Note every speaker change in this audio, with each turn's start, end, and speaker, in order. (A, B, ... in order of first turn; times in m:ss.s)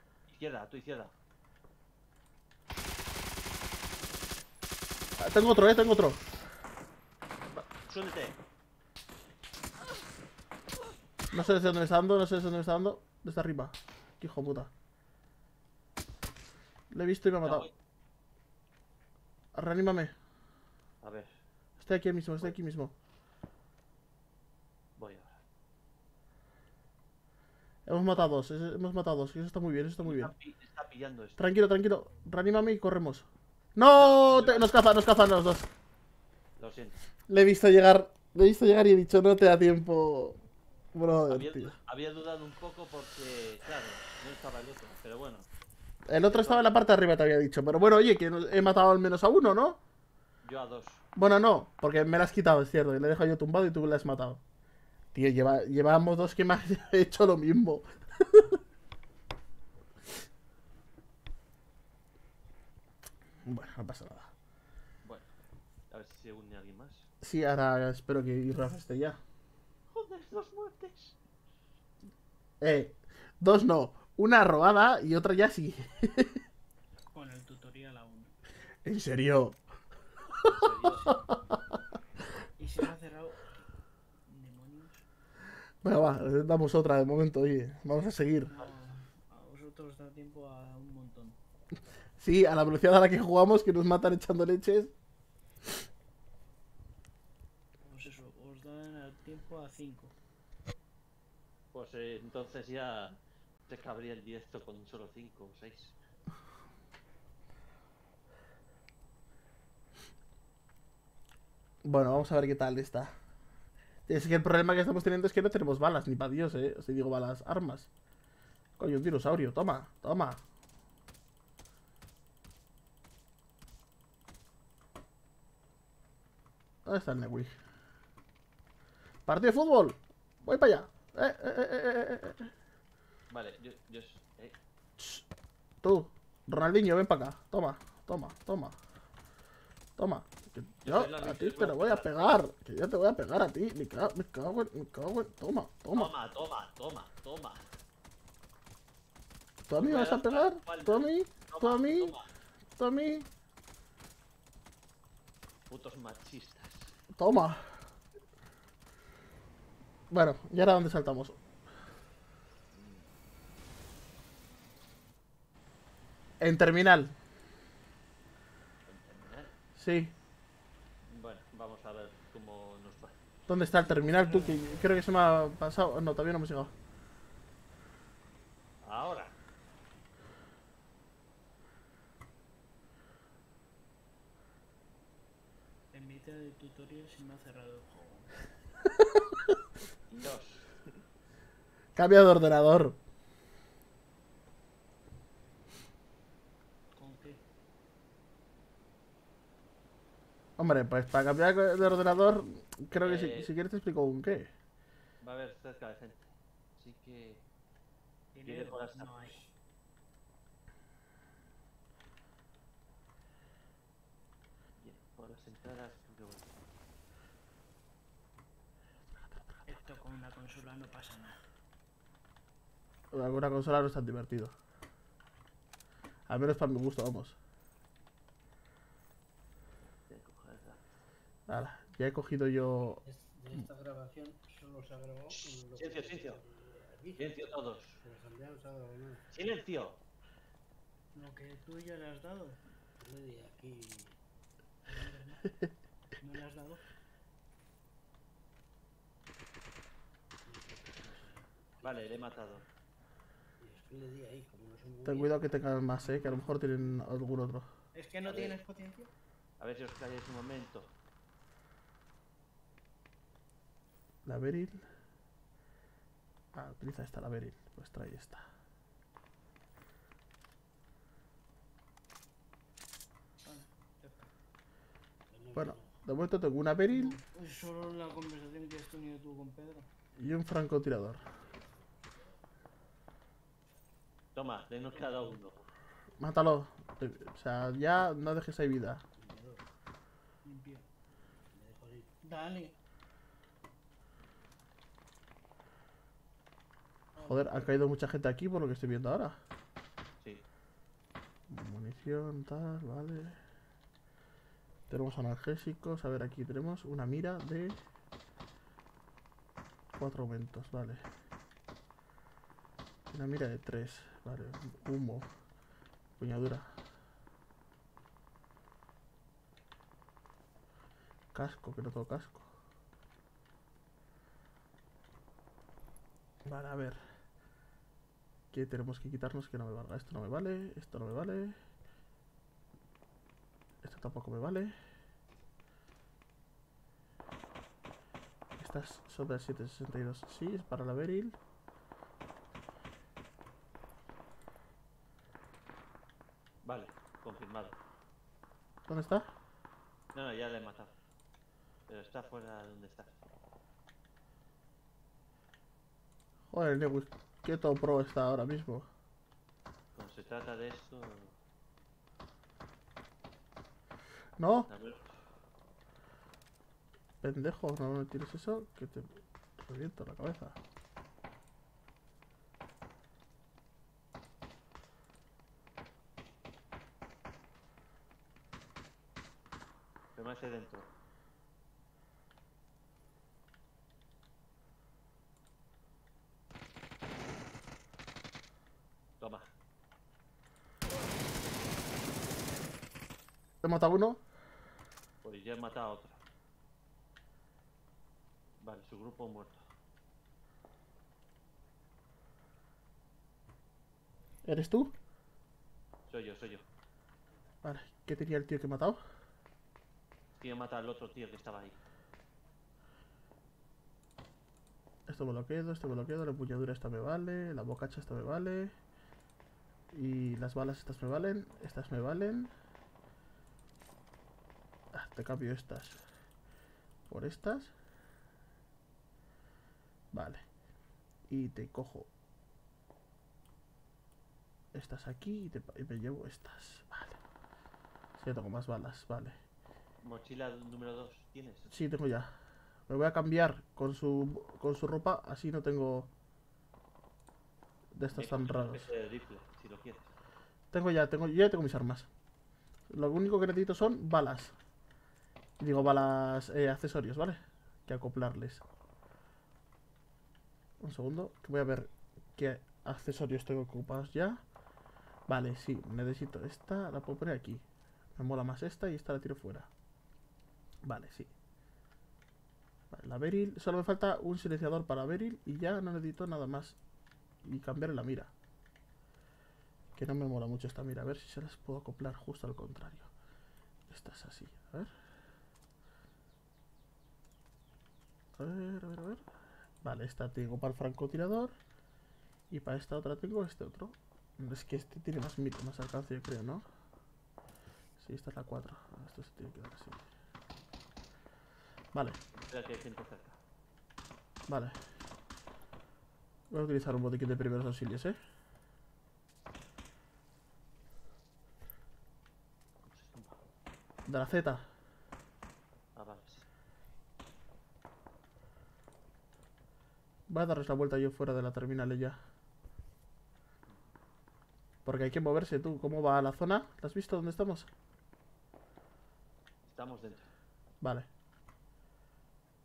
0:00.3-0:01.1 A
0:05.2-0:06.2 B
0:07.8-0:08.4 A
0:11.3-0:14.7 B
0:16.9-0:17.7 B
0:17.4-0:17.7 A
0:19.5-0:20.1 B
0:21.0-0:21.4 A
0:21.8-0:22.9 B
0:25.0-0:25.4 A
0:27.8-0:30.3 B
0:30.0-0:31.5 A
0:31.4-0:35.7 B
0:34.0-0:34.7 A
0:36.6-0:37.0 A
0:37.3-0:40.4 B
0:40.9-0:41.7 B
0:41.3-0:45.5 A
0:46.1-0:49.8 B
0:46.2-0:46.6 A
0:50.4-0:51.0 A
0:51.1-0:54.4 B
0:55.1-0:58.6 B
1:03.4-1:04.3 B
1:05.0-1:05.3 A
1:05.9-1:07.1 A
1:07.2-1:09.2 B
1:09.9-1:11.2 A
1:12.6-1:16.4 B
1:17.1-1:18.3 C
1:18.8-1:19.6 B
1:20.3-1:21.6 B
1:20.4-1:21.1 A
1:22.6-1:23.6 C
1:24.3-1:25.0 C
1:25.8-1:28.5 B
1:28.5-1:31.4 C
1:32.2-1:34.9 B
1:37.8-1:40.1 C
1:41.7-1:43.2 A
1:43.7-1:46.0 A
1:51.8-1:53.1 B
1:54.1-1:57.9 B
1:58.8-2:00.4 B
2:06.8-2:07.6 B
2:09.2-2:12.5 B
2:13.3-2:14.6 A
2:15.0-2:15.2 B
2:15.8-2:18.8 B
2:20.0-2:26.1 B
2:20.8-2:22.4 A
2:25.9-2:27.6 A
2:29.7-2:32.1 B
2:29.7-2:32.3 A
2:32.8-2:33.3 B
2:35.7-2:37.0 A
2:37.1-2:37.8 B
2:40.1-2:41.4 B
2:42.7-2:43.1 A
2:46.4-2:47.2 B
2:48.9-2:49.5 A
2:49.8-2:50.1 B
2:51.0-2:53.2 A
2:53.5-2:56.7 B
2:53.8-2:54.7 C
2:58.8-2:59.3 A
3:05.9-3:08.4 C
3:10.1-3:10.8 A
3:12.0-3:13.0 B
3:16.9-3:17.4 C
3:20.6-3:24.5 B
3:23.0-3:23.5 A
3:25.2-3:27.4 A
3:28.3-3:29.5 C
3:28.4-3:29.3 A
3:34.8-3:36.5 A
3:39.3-3:39.6 B
3:39.6-3:41.4 C
3:43.1-3:44.5 B
3:46.3-3:47.4 B
3:50.1-3:50.8 A
3:51.5-3:53.0 B
3:53.0-3:57.2 D
3:55.3-3:56.4 A
3:57.2-3:58.0 A
3:58.0-3:59.2 D
3:59.3-4:00.0 A
4:01.1-4:02.6 C
4:03.0-4:04.2 D
4:04.8-4:05.4 C
4:06.2-4:06.8 C
4:10.4-4:12.0 D
4:11.8-4:12.6 A
4:13.6-4:15.3 D
4:15.0-4:17.7 B
4:17.9-4:19.1 C
4:18.2-4:18.6 A
4:19.6-4:20.9 A
4:24.2-4:24.8 B
4:26.5-4:28.4 B
4:33.4-4:34.3 C
4:35.3-4:35.9 D
4:35.5-4:37.2 B
4:36.9-4:39.9 C
4:40.2-4:41.2 B
4:44.3-4:45.7 A
4:46.2-4:49.0 B
4:49.2-4:49.6 D
4:50.4-4:50.8 C
4:51.5-4:52.1 D
4:52.2-4:52.7 C
4:57.1-4:57.7 C
4:57.2-4:59.4 B
5:01.5-5:03.4 B
5:04.9-5:07.8 B
5:10.0-5:11.0 B
5:13.1-5:15.3 B
5:16.2-5:16.8 B
5:21.3-5:22.5 B
5:26.4-5:27.0 B
5:28.5-5:31.6 B
5:33.8-5:34.7 B
5:38.6-5:41.3 B
5:46.6-5:47.8 A
5:48.9-5:49.3 B
5:50.1-5:50.9 A
5:51.9-5:53.2 A
5:56.5-5:58.9 B
5:59.9-6:01.4 A
6:04.4-6:04.7 B
6:04.7-6:05.2 A
6:07.2-6:10.6 B
6:20.1-6:20.9 A
6:29.2-6:29.5 A
6:33.6-6:34.2 B
6:35.2-6:36.2 A
6:38.6-6:39.6 A
6:44.4-6:44.9 B
6:46.1-6:46.6 A
6:47.6-6:49.0 B
6:50.4-6:51.8 A
6:55.1-6:58.7 B
6:59.9-7:02.5 B
7:04.9-7:06.0 B
7:07.1-7:07.7 B
7:10.1-7:10.4 B
7:11.3-7:12.1 B
7:14.7-7:17.2 B
7:18.2-7:19.4 B
7:20.0-7:21.7 A
7:21.7-7:22.4 B
7:22.9-7:26.1 B
7:27.9-7:28.9 B
7:28.1-7:30.1 A
7:30.7-7:32.1 B
7:32.9-7:34.5 B
7:35.6-7:38.6 B
7:40.8-7:44.4 B
7:45.3-7:47.6 B
7:48.2-7:49.7 B
7:50.8-7:51.3 B
7:52.9-7:56.8 B
7:57.4-7:58.3 B
7:59.9-8:03.1 B
8:03.9-8:04.9 B
8:08.4-8:09.2 B
8:09.8-8:11.5 B
8:12.5-8:16.6 B
8:18.0-8:20.0 B
8:21.9-8:22.2 B
8:22.3-8:23.4 A
8:24.5-8:24.8 B
8:26.5-8:28.2 B
8:32.8-8:33.4 A
8:34.0-8:34.7 B
8:35.9-8:36.5 A
8:40.3-8:42.2 B
8:43.7-8:43.9 A
8:44.8-8:47.7 B
8:49.6-8:50.3 A
8:50.8-8:51.1 B